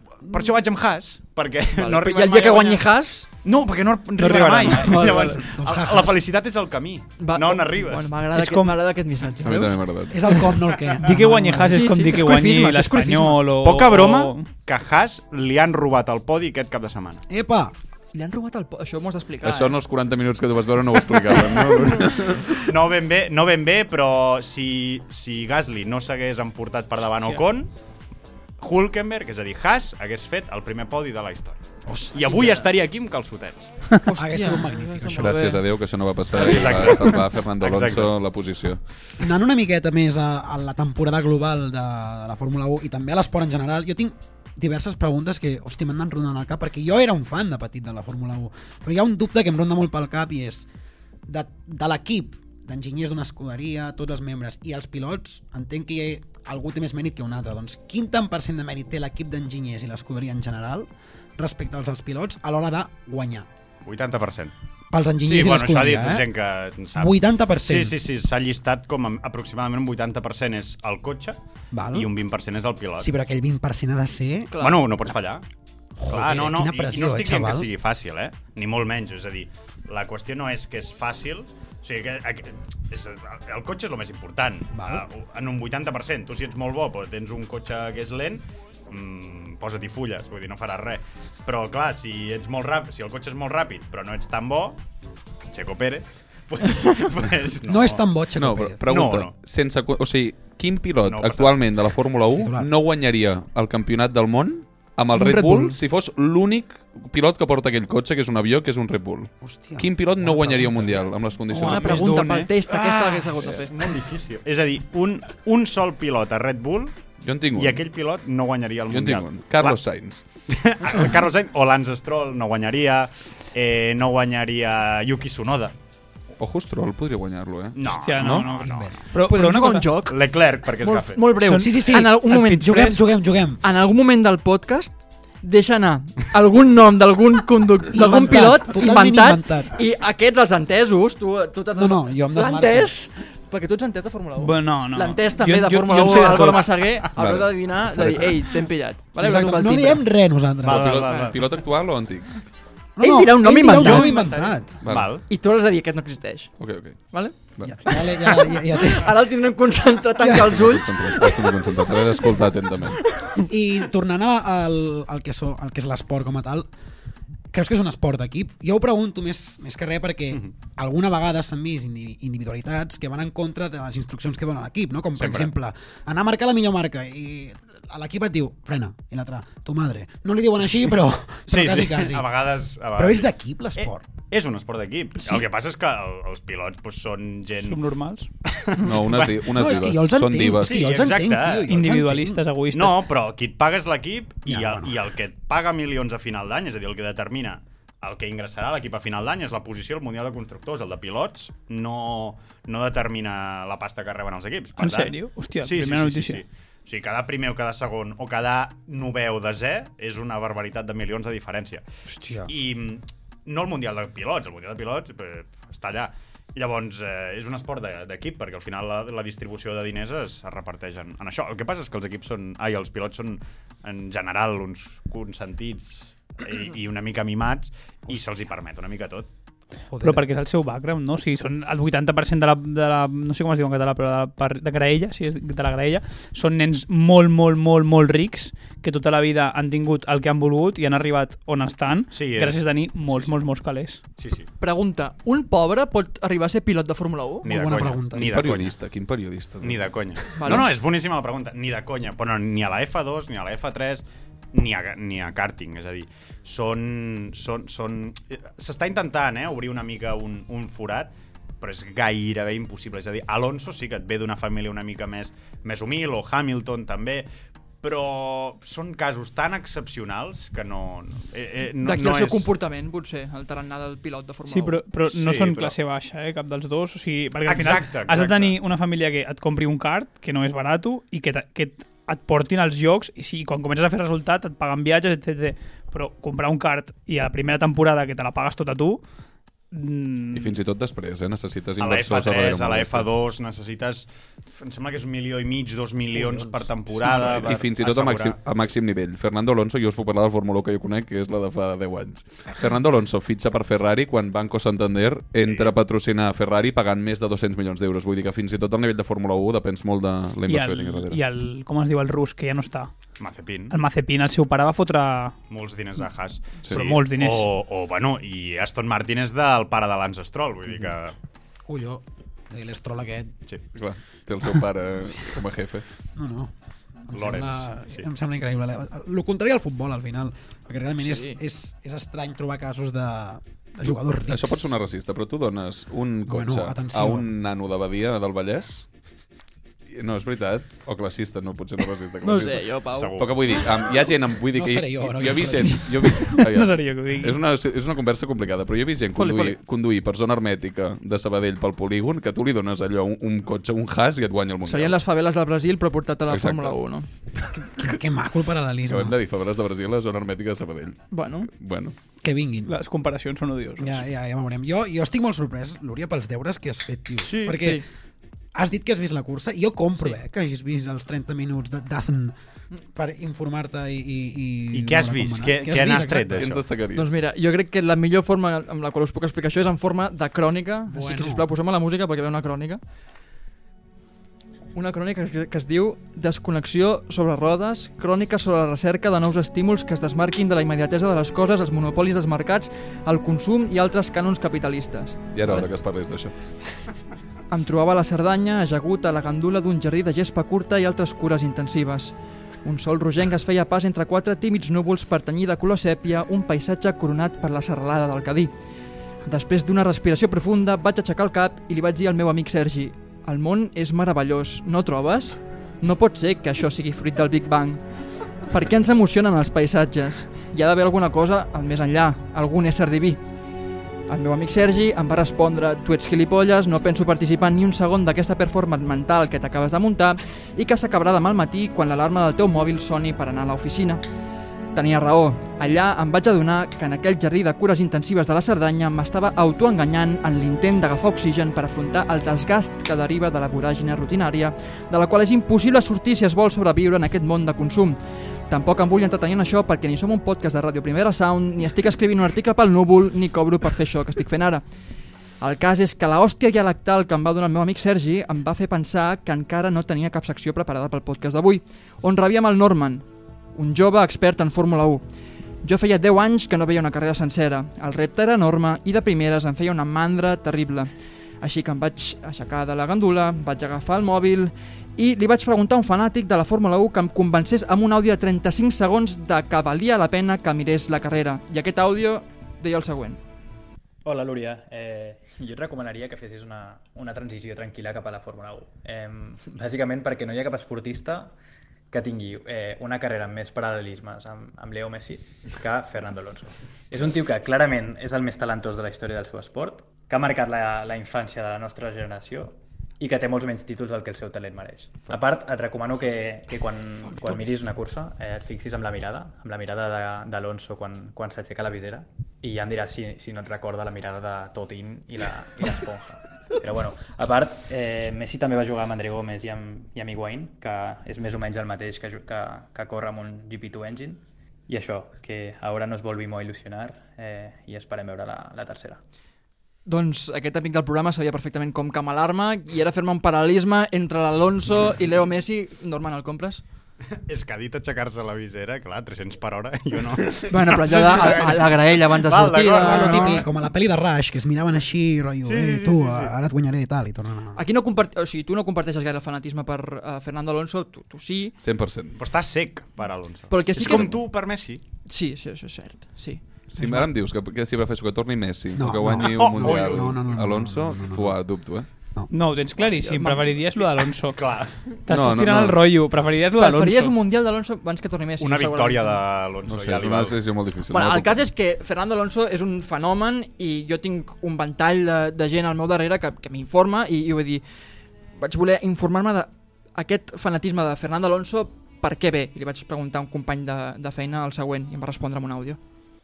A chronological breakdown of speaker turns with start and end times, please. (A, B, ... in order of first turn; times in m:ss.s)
0:00.3-0:02.9 A
0:01.8-0:03.3 B
0:03.4-0:08.1 A
0:04.2-0:05.4 C
0:04.7-0:05.2 B
0:05.1-0:06.2 D
0:07.2-0:09.8 B
0:08.3-0:08.8 C
0:09.4-0:10.5 E
0:09.5-0:11.8 D
0:11.0-0:14.5 C
0:11.6-0:13.5 B
0:13.6-0:17.2 A
0:17.3-0:17.7 D
0:18.1-0:19.8 B
0:19.4-0:22.6 E
0:22.6-0:27.7 A
0:28.6-0:31.6 A
0:31.9-0:32.7 D
0:32.1-0:33.8 A
0:34.1-0:35.6 B
0:34.2-0:35.5 D
0:35.1-0:38.8 E
0:36.3-0:38.1 A
0:39.2-0:50.7 D
0:51.3-1:03.5 D
1:03.8-1:04.5 A
1:04.9-1:06.3 D
1:05.2-1:11.4 A
1:07.0-1:08.0 D
1:11.7-1:12.1 D
1:11.9-1:13.1 A
1:13.0-1:14.5 D
1:14.5-1:14.9 B
1:14.6-1:15.4 A
1:16.0-1:17.7 D
1:16.1-1:34.8 A
1:24.7-1:25.0 D
1:35.5-1:38.0 A
1:37.7-1:38.8 D
1:38.4-1:52.2 E
1:38.9-1:39.4 A
1:41.0-1:41.6 A
1:42.4-1:42.7 D
1:45.1-1:45.8 B
1:49.4-1:51.1 D
1:51.5-1:52.5 C
1:51.5-1:53.7 B
1:52.6-1:57.0 A
1:57.2-1:57.8 E
1:57.6-1:59.8 A
1:58.9-2:00.2 E
2:00.5-2:05.7 A
2:06.4-2:08.5 E
2:07.8-2:08.9 A
2:08.0-2:09.9 C
2:08.5-2:09.0 D
2:09.3-2:10.2 B
2:10.1-2:11.2 A
2:10.8-2:13.0 B
2:11.4-2:13.0 C
2:11.6-2:13.6 D
2:13.6-2:30.1 B
2:17.9-2:19.8 D
2:21.8-2:22.9 D
2:24.4-2:26.8 C
2:27.2-2:28.5 E
2:29.2-2:31.0 D
2:30.6-2:31.4 A
2:30.6-2:32.3 E
2:33.0-2:34.7 D
2:33.0-2:34.4 B
2:33.8-2:35.3 A
2:34.8-2:35.1 E
2:35.3-2:36.6 B
2:36.6-2:37.8 E
2:37.1-2:37.4 B
2:37.6-2:39.1 D
2:37.9-2:41.6 B
2:40.2-2:40.4 D
2:40.4-2:43.0 E
2:43.5-2:46.7 D
2:47.5-3:02.3 D
2:55.2-2:55.5 A
3:01.5-3:07.8 A
3:03.0-3:04.0 D
3:07.6-3:08.3 C
3:08.5-3:09.7 A
3:08.8-3:10.9 E
3:09.5-3:12.4 D
3:10.6-3:11.8 A
3:11.7-3:13.0 C
3:12.7-3:31.8 A
3:14.5-3:15.0 D
3:24.8-3:26.4 C
3:32.1-3:32.5 D
3:32.4-3:49.3 A
3:49.9-3:50.2 D
3:50.0-4:04.0 C
4:02.1-4:03.3 A
4:04.2-4:04.5 A
4:04.6-4:07.5 B
4:07.4-4:08.4 D
4:07.4-4:08.8 A
4:08.2-4:09.8 E
4:09.6-4:27.3 A
4:10.4-4:10.7 B
4:27.8-4:32.5 A
4:31.8-4:34.8 B
4:34.5-4:49.0 C
4:35.1-4:35.8 A
4:37.5-4:38.6 A
4:49.7-4:50.5 C
4:50.3-4:53.1 E
4:51.8-4:58.4 A
4:56.2-4:57.5 D
4:57.4-5:11.2 E
5:05.4-5:05.7 A
5:10.5-5:12.9 C
5:13.2-5:13.8 A
5:13.7-5:15.4 C
5:15.5-5:21.1 A
5:16.7-5:17.5 C
5:21.7-5:23.3 D
5:23.7-5:25.8 E
5:26.2-5:26.5 D
5:27.1-5:34.7 D
5:27.1-5:28.1 A
5:31.0-5:31.4 B
5:34.3-5:38.9 E
5:36.3-5:37.3 D
5:39.9-5:55.0 E
5:42.2-5:43.2 B
5:42.9-5:43.6 A
5:44.5-5:46.1 D
5:46.4-5:47.4 C
5:49.1-5:49.6 B
5:54.7-5:57.1 B
5:56.3-5:56.8 E
5:57.5-5:59.2 D
5:58.8-6:02.0 E
6:01.1-6:01.5 B
6:02.2-6:02.8 D
6:02.7-6:04.0 C
6:03.8-6:07.8 D
6:07.2-6:07.6 A
6:07.5-6:07.8 B
6:08.5-6:12.3 D
6:12.9-6:16.5 D
6:14.7-6:16.6 A
6:16.4-6:17.1 E
6:16.9-6:22.8 B
6:20.9-6:21.4 D
6:24.8-6:35.7 B
6:35.3-6:36.3 E
6:37.5-6:48.5 B
6:49.2-6:57.8 B
6:58.5-7:03.2 B
7:04.1-7:14.0 B
7:14.7-7:28.0 B
7:28.5-7:34.6 B
7:35.4-7:45.0 B
7:45.6-8:03.2 B
8:04.0-8:11.4 F
8:11.9-8:49.0 F
8:49.9-8:56.6 B
8:57.3-9:03.5 A
9:00.5-9:03.5 B
9:02.8-9:07.6 D
9:05.4-9:06.3 A
9:07.6-9:11.6 B
9:11.6-9:12.2 E
9:12.2-9:14.8 A
9:13.5-9:14.3 B
9:15.0-9:16.4 B
9:16.7-9:21.9 E
9:16.8-9:17.0 D
9:18.8-9:21.4 D
9:19.3-9:20.1 A
9:22.3-9:24.4 C
9:22.9-9:23.6 B
9:24.3-9:24.9 A
9:25.1-9:27.2 C
9:25.1-9:25.8 E
9:26.6-9:29.2 B
9:28.4-9:30.4 A
9:29.7-9:31.5 E
9:30.9-9:37.6 B
9:38.4-9:45.8 B